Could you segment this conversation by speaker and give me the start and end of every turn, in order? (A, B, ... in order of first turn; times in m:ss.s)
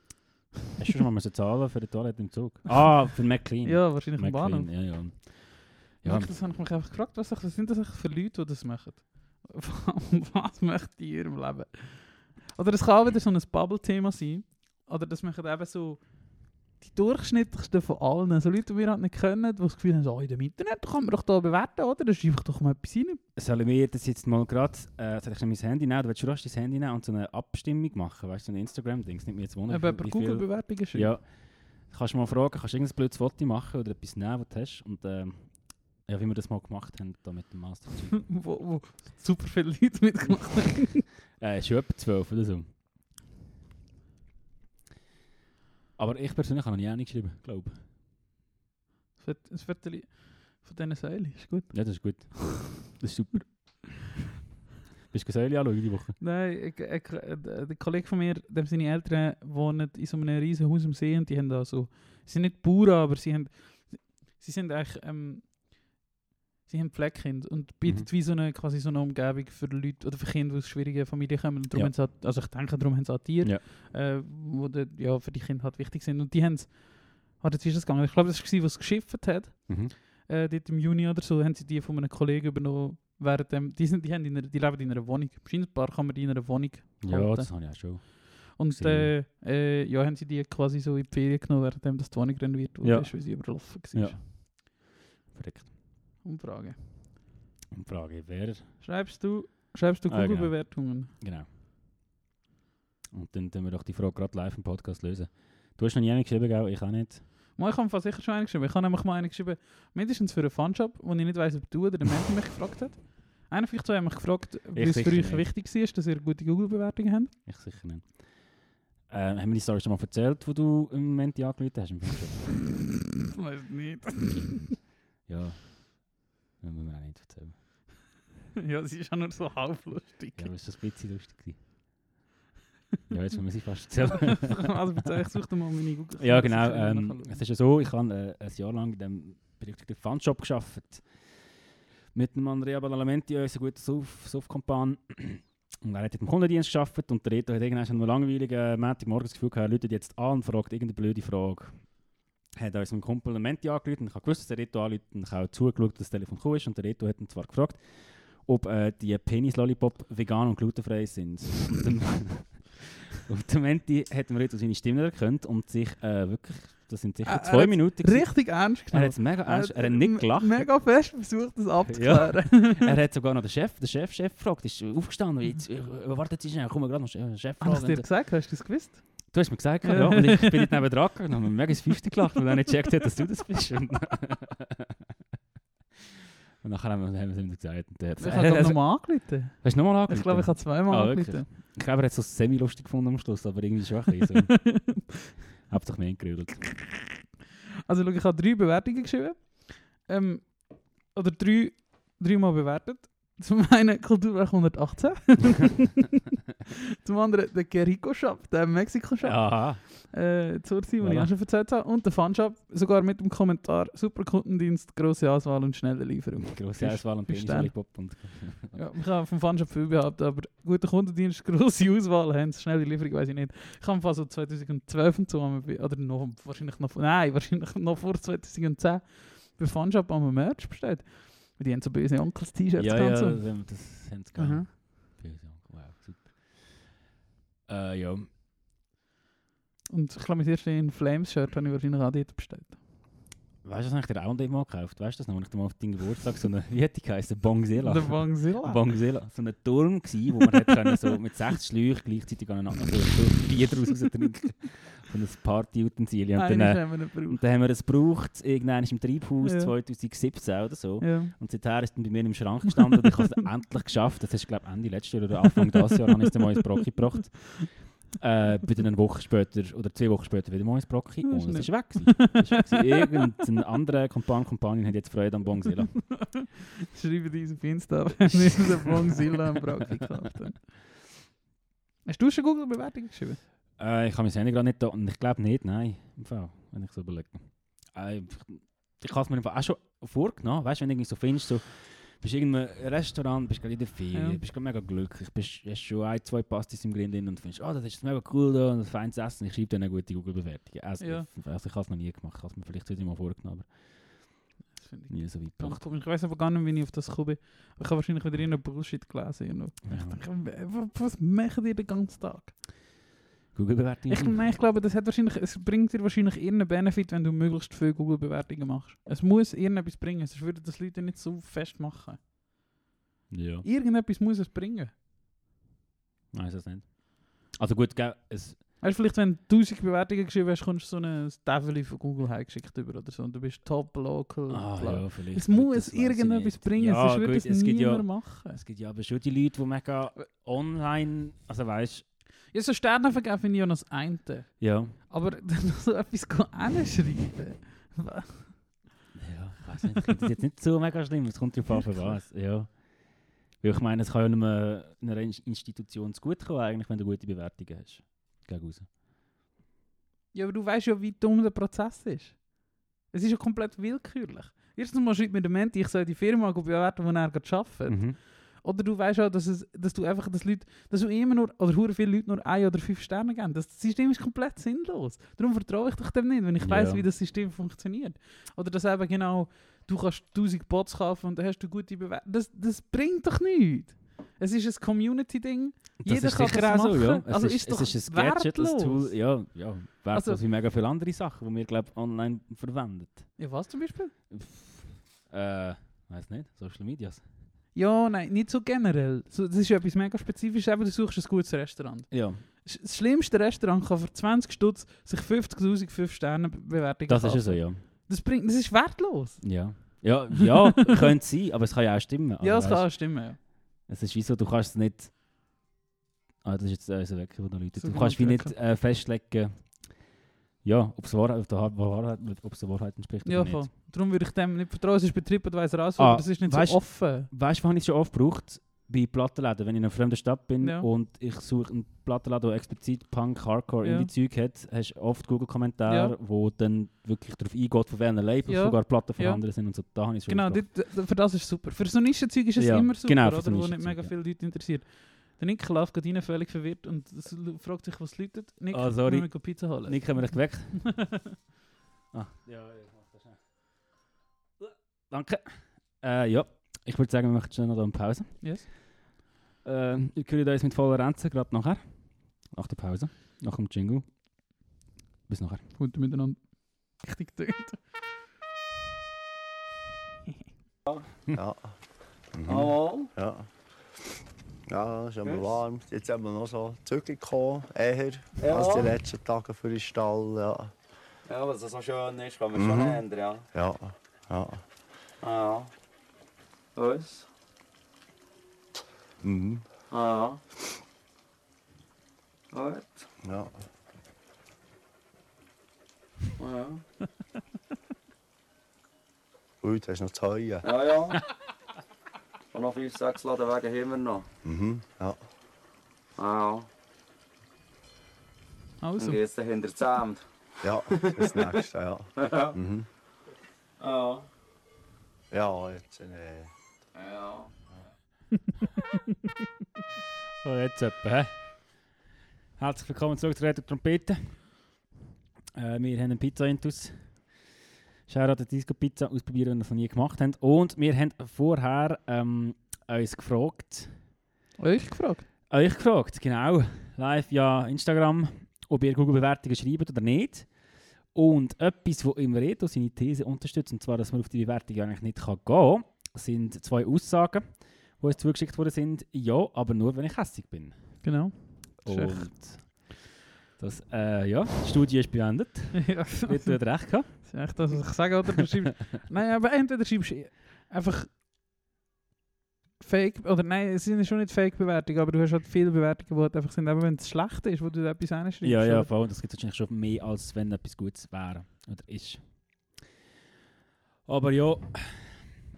0:00.8-0:06.3 A
0:03.6-0:04.8 B
0:06.0-0:23.2 B
0:23.4-0:38.3 A
0:29.7-0:31.1 B
0:38.2-0:41.0 B
0:41.4-0:42.7 A
0:46.0-0:47.8 A
0:49.2-0:52.2 B
0:51.7-0:54.1 A
0:55.1-0:56.2 A
0:56.2-1:05.7 B
1:06.7-1:34.2 B
1:07.8-1:08.1 A
1:19.7-1:19.9 A
1:27.0-1:29.1 A
1:32.8-1:35.7 A
1:36.2-1:37.1 B
1:37.7-1:38.8 A
1:38.8-1:41.1 B
1:40.1-1:41.5 A
1:43.1-1:47.2 A
1:47.6-1:57.3 B
1:54.7-1:55.5 A
1:57.4-2:02.6 A
2:03.3-2:04.7 B
2:05.2-2:07.6 A
2:08.6-2:10.5 B
2:10.4-2:11.6 A
2:13.1-2:14.8 A
2:14.2-2:17.4 B
2:16.2-2:21.5 A
2:22.1-2:32.0 A
2:32.6-2:50.7 A
2:47.2-2:52.9 B
2:51.9-2:58.2 A
2:57.6-3:00.7 B
2:59.3-3:04.8 A
3:06.6-3:15.1 A
3:08.2-3:11.5 B
3:14.5-3:15.1 B
3:15.7-3:16.7 A
3:17.9-3:26.2 B
3:27.0-3:38.1 B
3:29.2-3:30.2 A
3:31.0-3:31.3 A
3:36.4-3:38.9 A
3:38.7-3:53.7 B
3:52.8-3:56.9 A
3:54.4-3:54.7 B
3:57.7-3:58.3 A
3:59.9-4:02.8 B
4:03.6-4:36.3 A
4:07.8-4:08.8 B
4:16.4-4:17.4 B
4:19.4-4:19.7 B
4:21.0-4:21.3 B
4:31.3-4:33.1 B
4:36.1-4:40.6 B
4:42.1-4:43.4 B
4:43.8-5:04.4 A
4:54.1-4:54.4 B
5:01.0-5:01.3 B
5:04.7-5:12.6 B
5:05.1-5:05.8 A
5:09.9-5:10.2 A
5:13.5-5:14.4 A
5:14.1-5:22.2 B
5:23.3-5:23.6 A
5:23.6-5:24.9 B
5:26.3-5:28.6 A
5:28.8-5:38.6 B
5:34.5-5:42.1 A
5:42.5-5:48.8 B
5:44.6-5:45.0 A
5:49.2-5:58.9 A
6:00.3-6:29.1 B
6:07.9-6:08.2 A
6:16.6-6:17.0 A
6:26.0-6:33.4 A
6:30.1-6:30.4 B
6:33.4-6:34.1 B
6:34.3-6:37.2 A
6:37.7-6:51.0 B
6:42.1-6:42.4 A
6:47.1-6:47.8 A
6:49.4-6:55.1 A
6:52.4-6:53.4 B
6:56.4-7:03.7 A
6:57.8-6:58.5 B
7:03.2-7:07.3 B
7:06.0-7:20.7 A
7:10.6-7:10.9 B
7:13.8-7:14.1 B
7:15.9-7:16.1 B
7:18.5-7:19.4 B
7:20.3-7:31.3 B
7:22.6-7:24.1 A
7:28.7-7:31.2 A
7:32.1-7:33.4 A
7:34.6-7:38.7 A
7:38.4-7:38.7 B
7:39.6-7:44.1 A
7:45.3-7:45.7 A
7:45.8-7:47.8 B
7:51.3-7:51.7 C
7:52.3-7:53.5 C
7:52.5-7:53.1 D
7:54.7-8:00.7 C
7:58.4-7:58.9 D
8:01.3-8:03.4 D
8:02.6-8:04.6 C
8:05.2-8:05.7 D
8:06.8-8:07.3 D
8:09.2-8:09.6 C
8:09.9-8:10.4 D
8:12.5-8:13.1 D
8:13.2-8:13.5 C
8:16.4-8:16.8 D
8:19.6-8:20.6 C
8:20.6-8:21.2 D
8:22.5-8:24.3 D
8:24.4-8:25.2 C
8:26.2-8:26.7 D
8:28.8-8:29.2 B
8:29.0-8:30.2 D
8:30.6-8:32.9 C
8:30.9-8:31.6 D
8:32.2-8:32.6 D
8:33.8-8:34.3 D
8:35.3-8:36.5 C
8:36.9-8:37.5 D
8:40.4-8:41.9 A
8:42.6-8:44.6 A
8:45.6-8:47.4 A
8:48.1-8:54.0 A
8:54.6-8:55.2 B
8:55.5-9:11.0 A
9:11.0-9:12.5 B
9:11.8-9:13.1 A
9:13.6-9:17.8 A
9:15.8-9:21.1 B
9:22.8-9:28.9 B
9:28.4-9:32.8 A
9:34.1-9:35.3 A